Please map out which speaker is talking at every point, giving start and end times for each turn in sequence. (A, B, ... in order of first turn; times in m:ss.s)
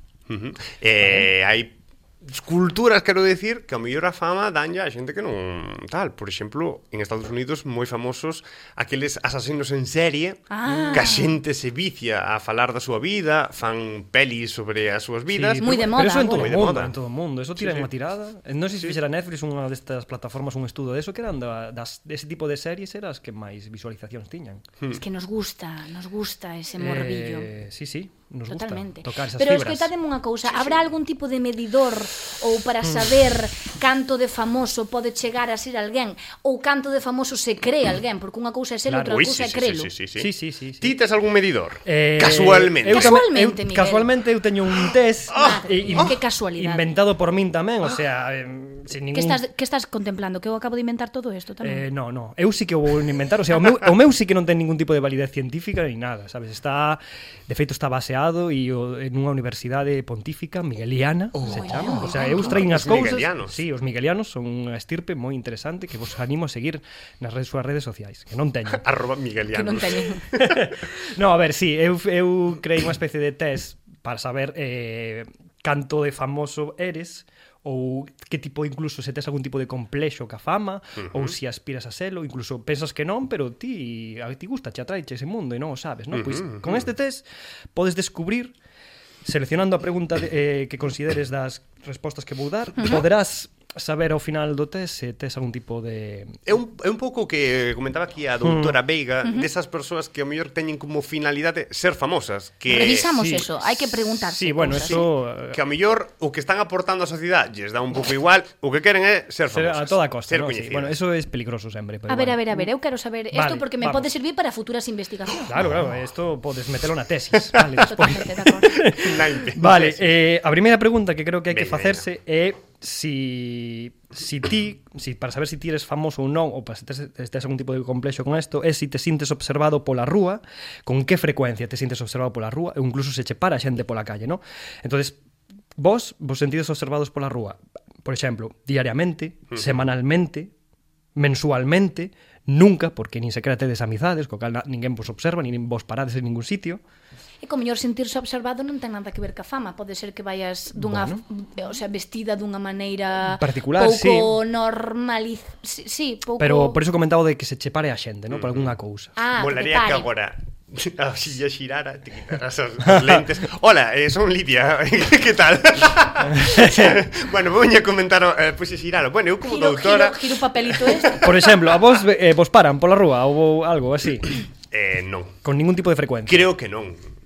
0:00.3-0:17.0 A
0:01.0-0:01.3 B
0:10.5-0:11.3 C
0:15.3-0:24.6 B
0:15.6-0:16.6 C
0:17.6-0:17.9 A
0:24.9-0:27.5 C
0:26.8-0:29.9 B
0:28.5-0:39.9 C
0:38.9-0:39.2 B
0:39.1-0:43.2 A
0:40.2-0:40.9 B
0:41.9-0:49.4 B
0:42.8-0:44.1 C
0:44.8-0:46.1 A
0:45.3-0:46.9 C
0:49.1-0:51.8 C
0:51.6-1:08.8 B
1:01.4-1:03.6 A
1:01.4-1:02.6 C
1:08.8-1:10.7 A
1:09.5-1:10.3 C
1:10.4-1:28.6 B
1:21.0-1:21.4 A
1:26.1-1:26.9 A
1:29.2-1:36.4 B
1:32.8-1:33.0 C
1:36.5-1:43.2 A
1:38.4-1:38.8 B
1:42.7-1:45.0 C
1:43.2-1:45.6 B
1:44.8-1:51.0 A
1:49.5-1:52.7 B
1:52.1-1:55.5 C
1:53.3-1:54.1 B
1:55.4-2:15.2 B
1:57.8-1:58.8 C
1:58.8-2:00.1 A
2:01.5-2:02.0 A
2:15.8-2:20.5 B
2:19.5-2:19.8 A
2:21.2-2:26.8 B
2:27.4-2:36.8 C
2:30.8-2:31.2 B
2:33.4-2:34.3 B
2:36.4-2:39.1 B
2:38.3-2:38.7 A
2:39.2-2:40.1 C
2:39.4-2:51.8 A
2:42.8-2:43.2 B
2:46.2-2:47.1 B
2:49.4-2:51.3 C
2:51.2-2:54.4 B
2:54.7-2:55.4 A
2:55.4-2:56.5 B
2:56.3-2:57.1 A